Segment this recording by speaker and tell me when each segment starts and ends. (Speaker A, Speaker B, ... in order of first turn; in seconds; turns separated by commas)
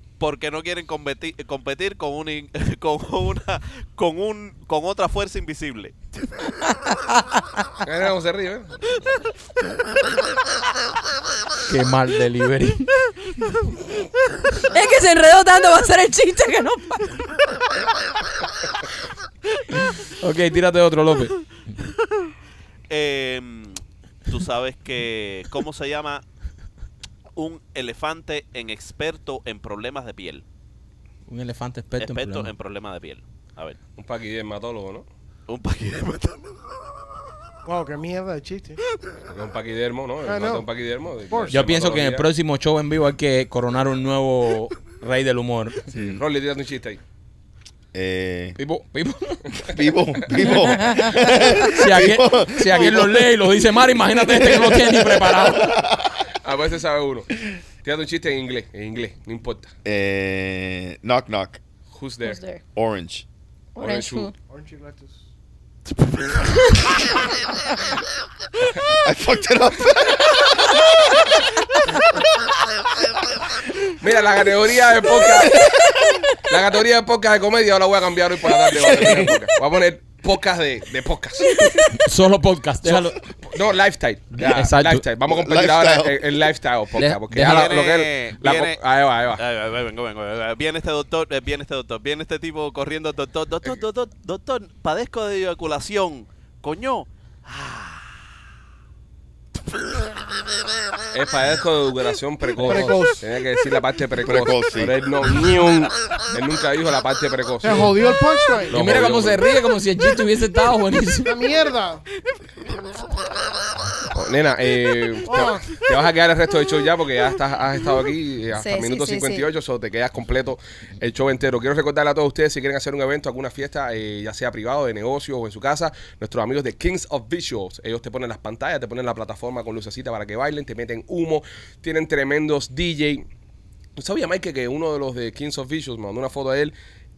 Speaker A: 0.2-6.0, Speaker B: 7.8-9.1, Speaker C: 11.7-12.9, Speaker D: 14.7-17.2, Speaker C: 19.8-21.4, Speaker A: 22.9-26.2, Speaker A: 27.4-30.4, Speaker C: 31.3-32.5, Speaker A: 32.0-33.8, Speaker B: 34.0-35.1, Speaker A: 35.5-36.6, Speaker E: 37.7-38.8, Speaker B: 39.3-42.3, Speaker E: 40.2-40.7, Speaker E: 41.3-41.6, Speaker C: 41.5-45.9, Speaker F: 45.9-46.2, Speaker B: 46.0-47.0, Speaker F: 47.9-48.6, Speaker C: 48.6-49.4, Speaker F: 49.6-53.3, Speaker C: 50.3-55.8, Speaker F: 54.2-56.2, Speaker B: 56.4-59.7, Speaker F: 59.9-61.6, Speaker B: 61.9-62.4, Speaker D: 62.2-62.6, Speaker F: 62.8-63.2, Speaker D: 63.8-64.3, Speaker B: 63.8-64.3, Speaker E: 64.5-65.2, Speaker F: 69.0-71.2, Speaker B: 74.0-75.8, Speaker F: 75.3-76.0, Speaker B: 76.5-81.6, Speaker F: 78.7-79.3, Speaker C: 81.8-83.2, Speaker B: 82.8-89.4, Speaker F: 84.3-84.6, Speaker C: 84.5-85.0, Speaker F: 85.2-86.5, Speaker C: 87.0-87.7, Speaker A: 87.4-88.8, Speaker A: 89.4-98.1, Speaker B: 101.1-107.9, Speaker E: 102.6-103.3, Speaker F: 104.2-105.0, Speaker E: 107.6-108.8, Speaker B: 108.7-109.4, Speaker C: 108.7-111.3, Speaker E: 111.2-112.0, Speaker B: 114.1-133.2, Speaker E: 115.3-115.8, Speaker D: 118.5-119.5, Speaker B: 134.0-136.7